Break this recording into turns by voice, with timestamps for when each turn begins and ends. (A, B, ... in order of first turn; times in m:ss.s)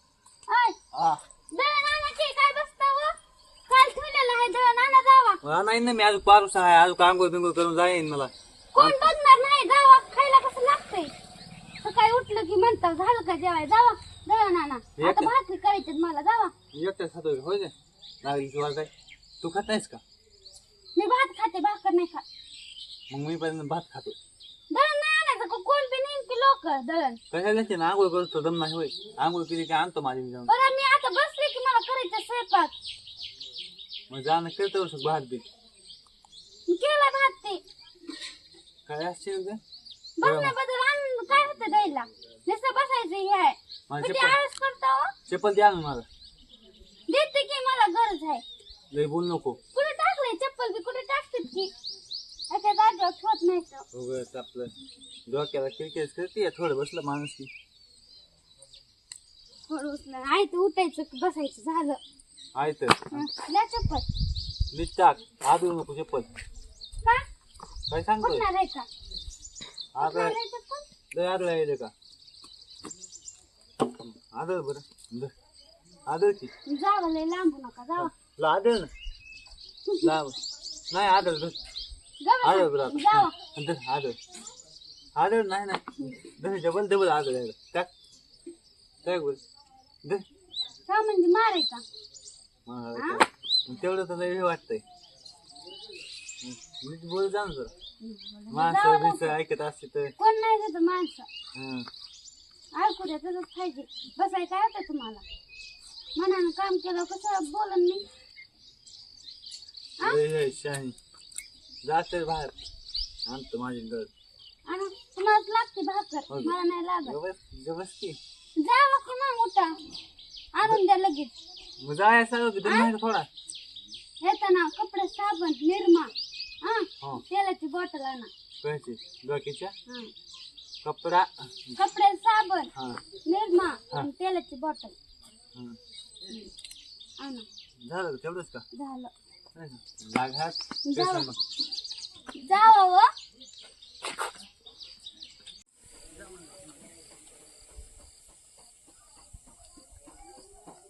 0:00.5-0:00.8 A
0:00.9-0:01.2 B
0:01.5-0:03.1 A
0:03.7-0:05.4 A
0:05.4-0:09.1 B
0:08.7-0:11.1 A
0:11.8-0:16.5 A
0:15.0-0:15.3 B
0:16.7-0:20.0 B
0:21.0-0:22.2 A
0:23.1-0:24.2 B
0:24.7-0:27.2 A
0:27.3-0:30.5 B
0:30.5-0:32.8 A
0:34.1-0:35.5 B
0:36.7-0:37.6 A
0:38.9-0:39.6 B
0:40.2-0:45.1 A
0:40.2-0:40.6 B
0:43.9-0:44.4 B
0:45.3-0:46.1 B
0:47.1-0:48.4 A
0:48.9-0:49.6 B
0:49.7-0:51.7 A
0:52.5-0:53.9 A
0:53.9-0:54.7 B
0:55.3-0:57.5 B
0:59.7-1:02.0 A
1:02.6-1:03.3 B
1:03.1-1:04.1 A
1:04.7-1:06.3 B
1:07.9-1:08.5 B
1:08.2-1:08.9 A
1:10.0-1:10.4 B
1:10.0-1:10.9 A
1:11.1-1:11.9 B
1:14.0-1:15.3 B
1:16.1-1:16.5 B
1:16.6-1:18.1 A
1:18.0-1:18.9 B
1:19.9-1:20.1 A
1:20.0-1:20.4 B
1:20.9-1:21.6 B
1:22.2-1:23.4 A
1:22.4-1:24.2 B
1:25.2-1:27.9 B
1:29.0-1:29.4 B
1:30.9-1:31.8 A
1:32.7-1:34.8 B
1:33.0-1:33.2 A
1:36.4-1:37.7 B
1:38.0-1:39.3 A
1:38.5-1:40.1 B
1:40.2-1:41.3 A
1:41.5-1:41.9 B
1:42.7-1:45.2 A
1:46.2-1:48.0 A
1:50.0-1:51.0 B
1:51.8-1:52.6 B
1:53.3-1:54.1 B
1:54.7-1:57.2 A
1:56.3-1:58.2 B
1:58.6-1:59.7 A
2:00.6-2:01.3 A
2:01.8-2:03.3 B
2:02.6-2:02.9 A
2:04.2-2:06.1 A
2:06.6-2:08.3 A
2:08.6-2:09.8 B
2:09.9-2:10.1 A
2:10.8-2:11.8 B
2:11.8-2:12.7 A
2:12.8-2:13.0 B
2:13.2-2:15.0 A
2:17.2-2:17.5 A
2:17.8-2:18.6 B
2:18.7-2:19.1 A
2:19.6-2:21.4 B
2:20.8-2:21.3 A
2:22.4-2:23.1 A